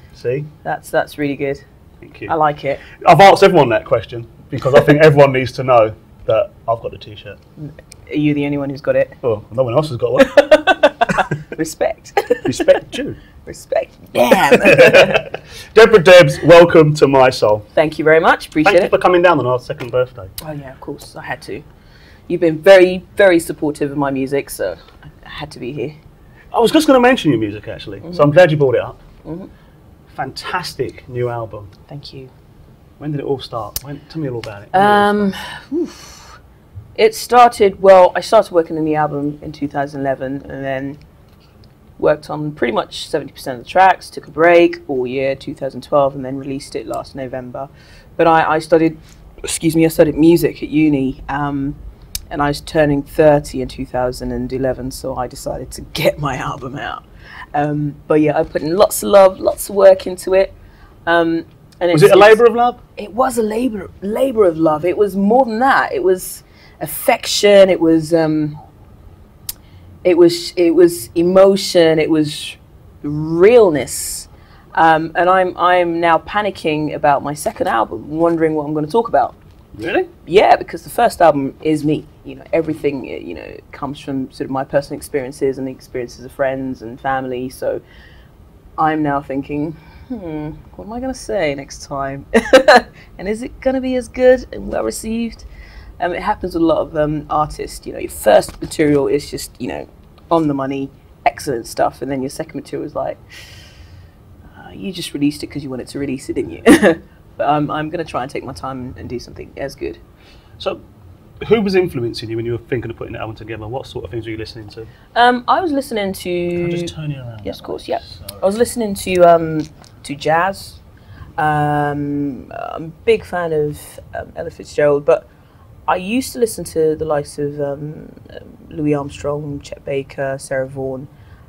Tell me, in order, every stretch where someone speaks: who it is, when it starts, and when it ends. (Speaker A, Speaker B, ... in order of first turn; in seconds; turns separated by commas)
Speaker A: 0.1-0.5, Speaker B: 0.6-1.6, Speaker A: 2.0-2.3, Speaker B: 2.3-2.8, Speaker A: 3.0-7.4, Speaker B: 7.6-9.2, Speaker A: 9.2-10.7, Speaker B: 10.2-12.7, Speaker A: 12.4-13.2, Speaker B: 13.4-15.3, Speaker A: 14.2-17.6, Speaker B: 17.7-18.9, Speaker A: 18.6-20.3, Speaker B: 20.4-21.6, Speaker B: 22.3-26.0, Speaker A: 26.5-29.0, Speaker B: 29.2-29.5, Speaker A: 30.1-31.7, Speaker B: 31.9-32.3, Speaker A: 33.0-35.3, Speaker B: 34.7-36.4, Speaker B: 37.0-41.0, Speaker B: 42.0-51.8, Speaker B: 52.3-60.5, Speaker B: 61.1-62.4, Speaker A: 61.9-62.8, Speaker B: 63.0-68.6, Speaker B: 70.0-79.4, Speaker A: 79.8-80.1, Speaker B: 80.2-87.8, Speaker B: 88.8-95.5, Speaker B: 96.0-103.2, Speaker B: 104.5-110.0, Speaker A: 111.4-114.9, Speaker B: 115.1-116.9, Speaker A: 116.5-118.4, Speaker B: 117.4-120.8, Speaker B: 121.4-125.3, Speaker B: 125.9-131.1